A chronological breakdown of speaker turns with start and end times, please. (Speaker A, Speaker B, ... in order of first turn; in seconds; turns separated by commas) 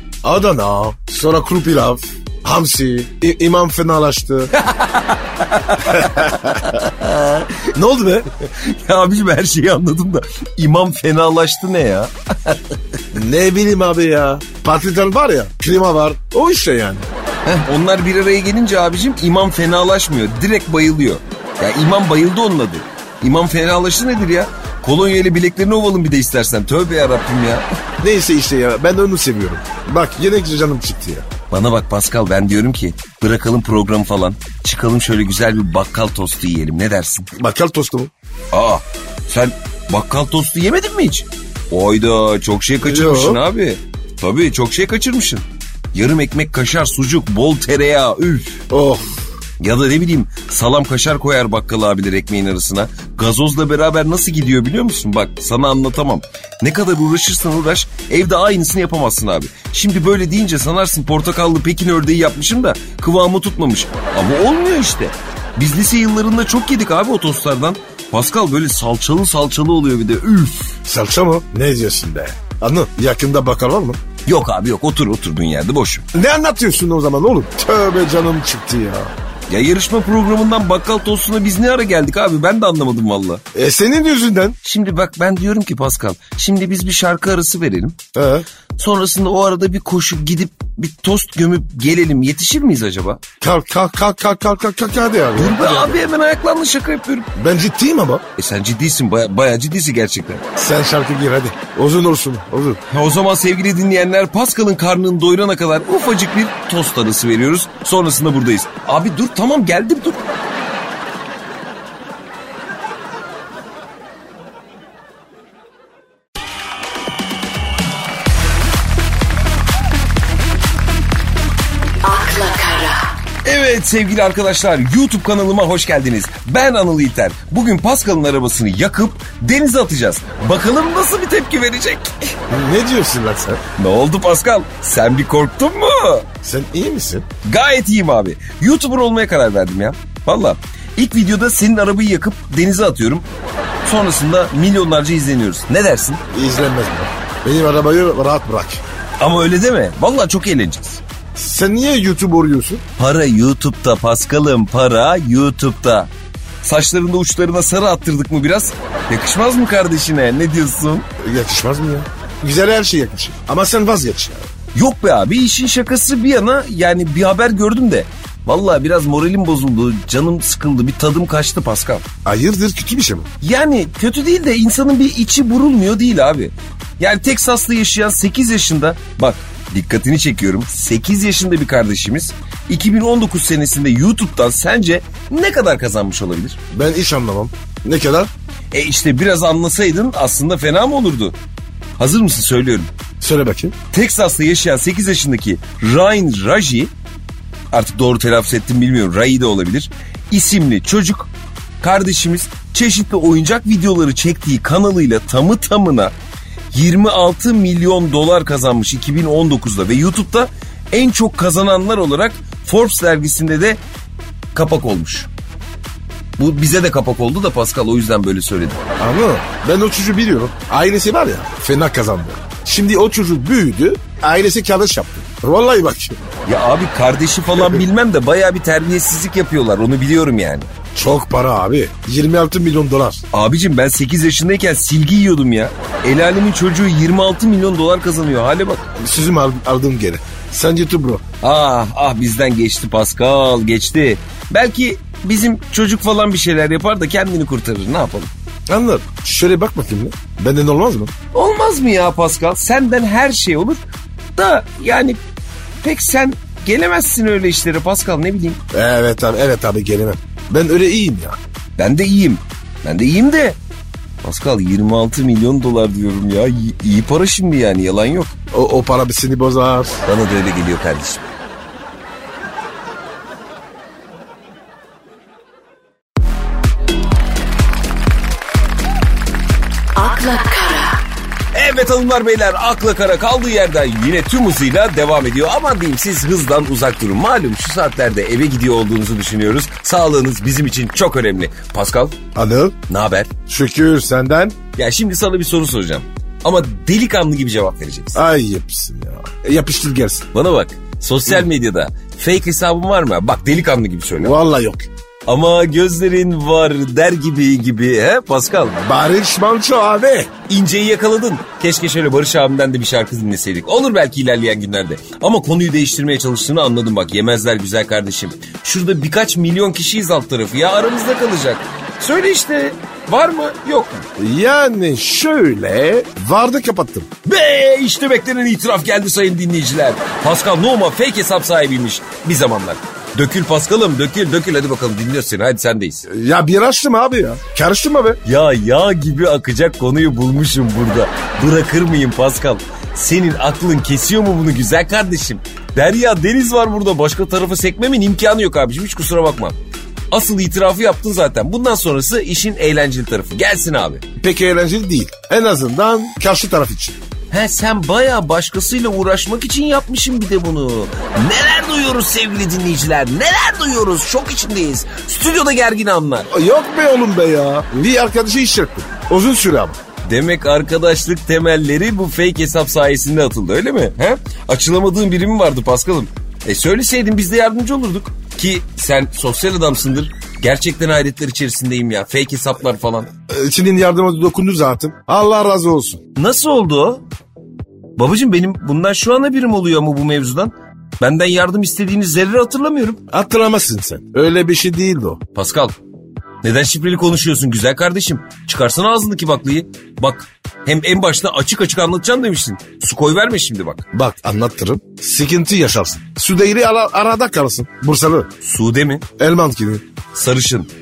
Speaker A: 0.2-4.5, Speaker B: 4.5-7.6, Speaker A: 5.9-6.7, Speaker A: 7.7-8.3, Speaker B: 8.4-12.8, Speaker A: 13.1-17.1, Speaker B: 17.4-27.6, Speaker A: 28.0-31.3, Speaker B: 31.5-37.3, Speaker A: 37.3-38.1, Speaker B: 38.5-48.6, Speaker A: 42.8-43.4, Speaker A: 48.7-49.2, Speaker B: 49.6-70.8, Speaker A: 70.9-74.0, Speaker B: 74.3-76.1, Speaker A: 76.1-79.1, Speaker B: 79.5-83.4, Speaker A: 83.5-84.6, Speaker B: 84.6-88.0, Speaker A: 88.2-88.5, Speaker B: 88.8-93.2, Speaker A: 93.4-96.1, Speaker B: 95.4-97.3, Speaker A: 97.4-98.2, Speaker B: 98.4-100.4, Speaker A: 100.6-102.8, Speaker B: 102.9-110.2, Speaker C: 122.0-123.1, Speaker B: 123.4-132.4, Speaker A: 132.5-133.6, Speaker B: 133.8-136.3, Speaker A: 136.4-137.3, Speaker B: 137.4-143.3, Speaker B: 143.8-146.2, Speaker A: 146.3-148.8, Speaker B: 149.2-151.0, Speaker A: 151.4-152.8, Speaker B: 153.0-156.1, Speaker B: 156.6-161.1, Speaker A: 161.2-164.5, Speaker B: 164.8-172.1, Speaker A: 172.2-173.3, Speaker B: 173.4-186.6, Speaker A: 186.7-188.3, Speaker B: 188.7-191.4, Speaker B: 192.0-192.9, Speaker A: 193.2-193.8, Speaker B: 193.9-196.9, Speaker B: 197.7-201.3, Speaker B: 201.8-206.1, Speaker B: 206.7-213.8, Speaker B: 214.5-215.3, Speaker B: 216.4-218.8, Speaker A: 219.0-226.2, Speaker B: 226.5-230.7, Speaker A: 230.9-233.2, Speaker B: 233.3-238.9, Speaker A: 239.0-241.2, Speaker B: 241.4-248.3, Speaker A: 248.7-251.1, Speaker B: 251.3-253.8, Speaker B: 254.4-255.2, Speaker B: 255.8-258.6, Speaker A: 258.7-261.4, Speaker B: 261.8-263.6, Speaker B: 264.2-268.4, Speaker A: 268.5-270.0, Speaker B: 270.1-271.3, Speaker C: 279.9-281.0, Speaker B: 281.5-292.2, Speaker A: 292.4-292.8, Speaker B: 292.9-293.3, Speaker A: 293.5-294.6, Speaker B: 294.8-298.2, Speaker A: 298.1-300.3, Speaker B: 300.3-304.4, Speaker A: 304.2-304.9, Speaker B: 305.3-308.8, Speaker A: 308.8-310.3, Speaker B: 310.5-324.1, Speaker A: 324.2-327.1, Speaker B: 327.2-336.1, Speaker A: 336.1-338.2, Speaker B: 338.2-349.6, Speaker B: 350.1-354.0, Speaker A: 354.2-357.0, Speaker B: 357.3-366.3, Speaker A: 366.3-369.8, Speaker B: 370.0-383.1, Speaker A: 383.3-386.0, Speaker B: 386.1-387.1, Speaker B: 388.0-393.0, Speaker A: 393.1-395.2, Speaker B: 395.3-395.8, Speaker B: 396.4-403.9, Speaker A: 403.9-408.3, Speaker B: 408.4-409.1, Speaker A: 409.2-409.9, Speaker B: 410.1-410.7